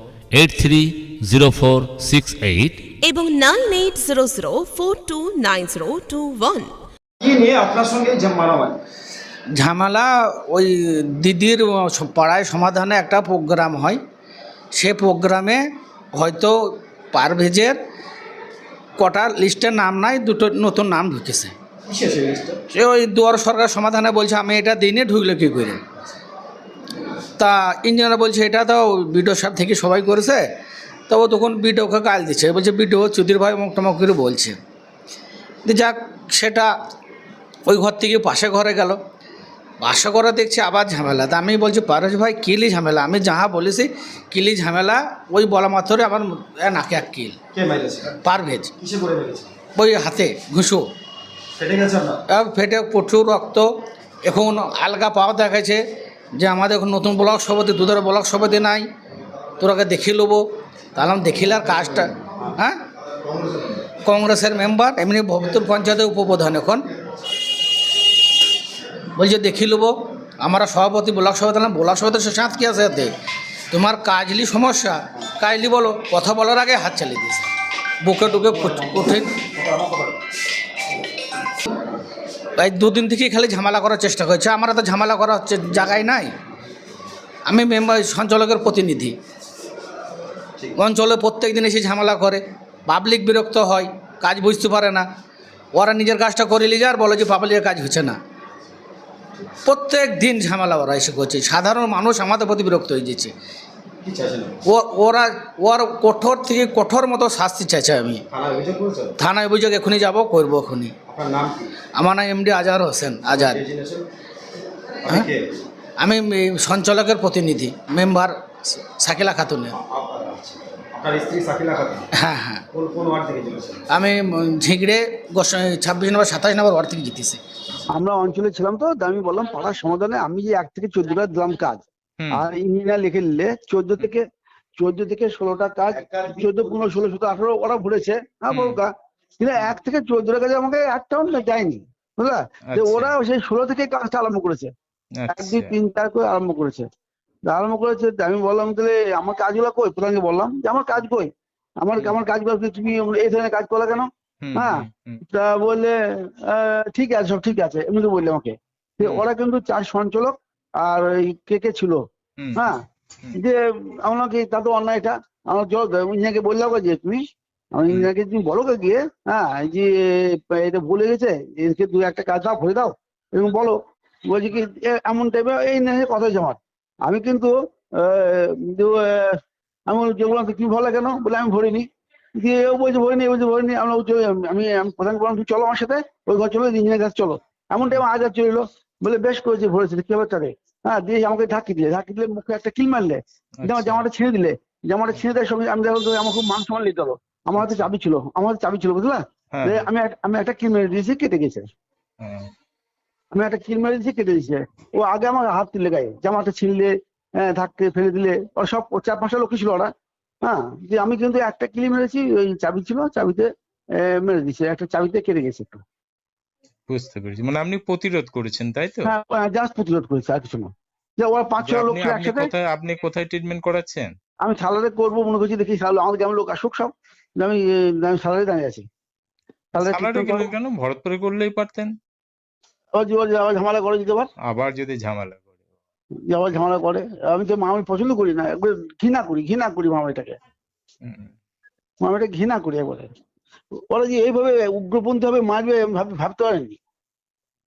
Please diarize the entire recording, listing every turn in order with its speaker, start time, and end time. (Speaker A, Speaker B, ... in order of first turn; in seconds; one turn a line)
Speaker A: 0.3-2.8
Speaker B: 3.0-6.7
Speaker C: 7.2-8.8
Speaker D: 9.6-14.0
Speaker D: 14.7-16.5
Speaker D: 17.1-17.8
Speaker D: 19.0-21.5
Speaker C: 21.9-22.6
Speaker D: 22.7-25.8
Speaker D: 27.4-30.4
Speaker D: 31.1-34.6
Speaker D: 35.6-36.7
Speaker D: 37.7-39.0
Speaker D: 39.8-47.4
Speaker C: 47.5-48.1
Speaker D: 48.2-48.7
Speaker C: 48.8-49.5
Speaker D: 49.8-50.9
Speaker C: 51.6-52.2
Speaker D: 52.3-53.6
Speaker D: 54.2-55.8
Speaker D: 56.4-58.9
Speaker D: 59.6-60.4
Speaker D: 60.9-62.8
Speaker D: 64.0-66.9
Speaker D: 69.2-73.1
Speaker D: 73.7-77.5
Speaker D: 78.0-79.3
Speaker C: 78.6-80.2
Speaker D: 82.6-86.3
Speaker D: 87.5-89.2
Speaker D: 90.7-95.1
Speaker D: 95.7-98.2
Speaker D: 99.7-103.3
Speaker C: 104.0-104.6
Speaker D: 104.7-108.2
Speaker C: 108.3-109.1
Speaker D: 109.2-110.9
Speaker C: 111.1-111.7
Speaker D: 112.0-113.7
Speaker C: 113.3-114.0
Speaker C: 115.0-115.5
Speaker D: 116.0-119.8
Speaker C: 119.8-122.0
Speaker D: 122.2-122.6
Speaker C: 122.7-123.8
Speaker D: 123.9-127.4
Speaker E: 127.9-131.8
Speaker F: 132.2-132.4
Speaker E: 132.3-134.2
Speaker E: 134.8-144.7
Speaker C: 136.1-136.5
Speaker F: 138.5-138.8
Speaker F: 142.7-143.1
Speaker F: 145.1-145.7
Speaker E: 145.3-146.8
Speaker E: 147.4-162.0
Speaker F: 154.4-155.2
Speaker F: 159.0-159.3
Speaker F: 162.4-162.6
Speaker E: 163.3-167.2
Speaker E: 167.7-173.8
Speaker E: 174.3-179.3
Speaker E: 179.9-181.8
Speaker E: 182.4-201.7
Speaker F: 193.6-194.1
Speaker F: 197.6-197.9
Speaker F: 199.5-199.9
Speaker F: 202.2-202.5
Speaker E: 203.3-209.9
Speaker E: 210.4-215.8
Speaker F: 216.9-219.1
Speaker E: 219.0-222.5
Speaker F: 221.6-224.1
Speaker E: 224.4-228.8
Speaker E: 229.7-230.5
Speaker F: 229.7-232.0
Speaker E: 232.9-234.3
Speaker F: 234.4-235.5
Speaker E: 236.3-240.3
Speaker F: 241.0-241.3
Speaker E: 242.0-243.1
Speaker E: 243.9-246.8